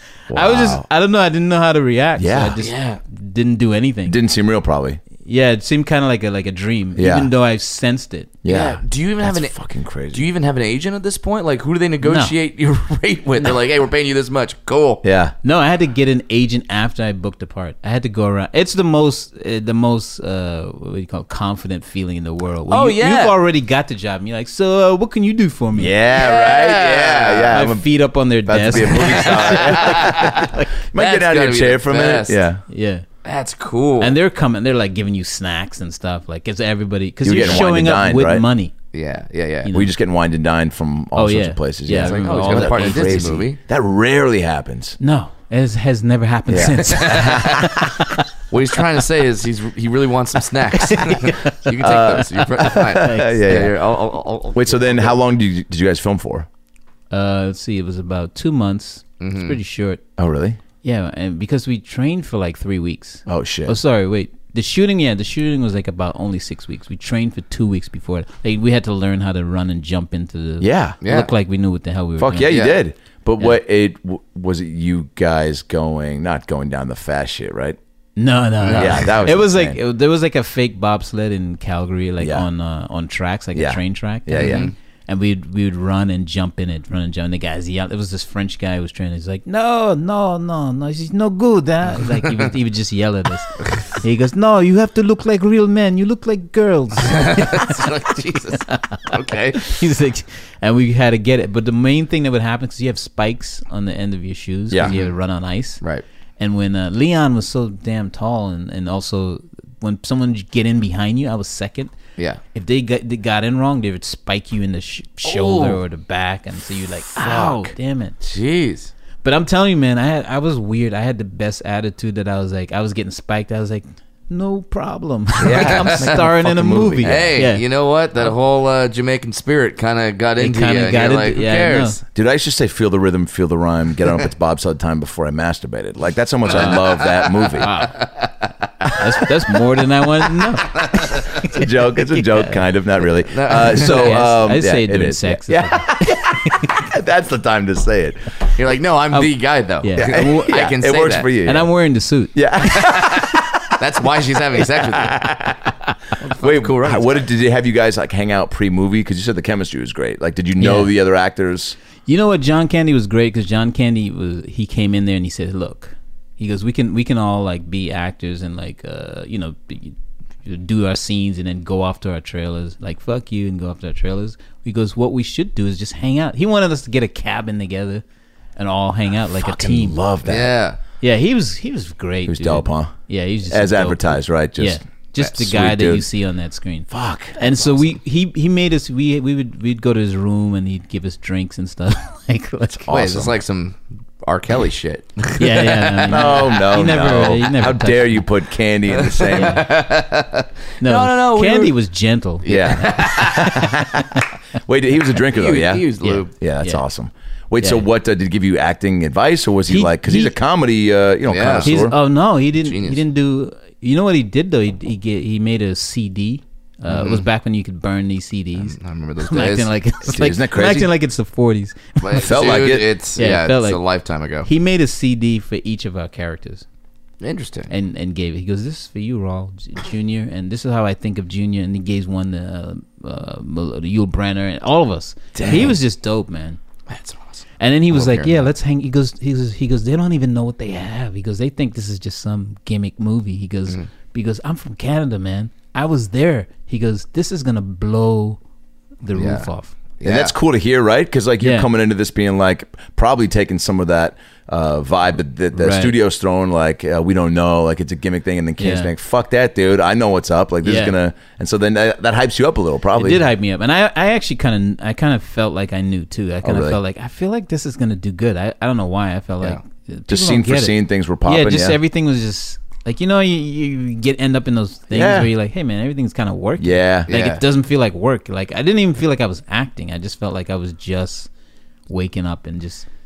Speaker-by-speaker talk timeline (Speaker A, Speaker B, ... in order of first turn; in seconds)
Speaker A: 0.3-0.8, 2.1-2.5, 4.0-5.0, 7.0-7.3, 8.4-10.2, 15.0-15.3, 25.7-32.6, 37.2-38.5, 39.7-45.0, 46.5-47.9, 51.8-53.8, 54.5-56.5, 60.2-60.6, 63.2-63.8, 70.6-71.0, 72.2-77.8, 78.7-79.8, 82.2-82.5, 83.5-84.7, 117.3-117.7, 125.4-127.4, 132.1-137.7, 141.4-148.2, 150.0-151.7, 152.3-153.5, 154.6-155.7, 156.2-161.8, 179.2-180.5, 182.3-182.9, 183.5-186.1, 186.9-187.5, 192.7-193.3, 196.1-199.6, 202.4-204.1, 204.7-211.9, 220.1-220.9, 222.2-222.9, 235.3-235.7, 250.0-263.3, 266.4-266.8, 270.1-271.8, 274.9-275.3, 276.6-277.1
Speaker B: 0.3-4.2, 5.2-8.3, 12.0-12.3, 15.4-25.9, 27.5-30.7, 32.7-33.0, 34.0-38.7, 41.1-43.4, 45.0-47.9, 50.9-51.6, 52.9-53.4, 57.1-60.0, 60.8-72.5, 78.2-105.8, 106.4-111.9, 112.5-118.2, 119.2-127.6, 130.4-132.0, 136.5-136.8, 137.6-138.0, 138.9-142.6, 143.8-146.7, 149.1-150.7, 151.4-152.3, 160.6-160.9, 162.1-178.0, 178.6-180.0, 181.0-192.9, 195.4-198.3, 199.3-199.6, 200.8-202.8, 206.0-206.8, 207.6-207.9, 209.7-210.3, 211.6-222.5, 223.2-223.8, 224.4-226.6, 227.7-236.6, 237.6-248.4, 249.0-249.7, 251.4-251.7, 255.5-255.9, 258.6-258.9, 260.6-260.9, 262.9-281.3, 281.9-282.9
Speaker C: 2.6-3.0, 8.4-9.6, 10.1-15.0, 22.7-23.4, 26.1-27.6, 28.7-32.4, 33.2-34.1, 37.4-37.6, 38.9-39.8, 42.0-43.6, 46.9-47.7, 48.5-55.1, 59.2-59.6, 71.0-71.3, 72.5-72.8, 78.6-79.2, 84.4-84.7, 92.0-92.3, 97.0-99.8, 104.8-105.1, 115.2-115.8, 117.2-117.6, 118.2-118.9, 125.5-126.1, 127.0-132.0, 136.5-139.0, 140.6-141.3, 143.3-144.2, 148.6-151.3, 152.8-155.2, 156.4-157.2, 180.2-180.8, 192.9-196.6, 198.9-201.8, 202.4-203.6, 205.3-206.3, 211.3-211.7, 212.5-213.0, 216.9-217.2, 218.6-219.7, 222.0-224.5, 227.2-227.7, 235.5-235.7, 236.9-238.5, 249.1-249.5, 250.0-250.3, 277.1-277.4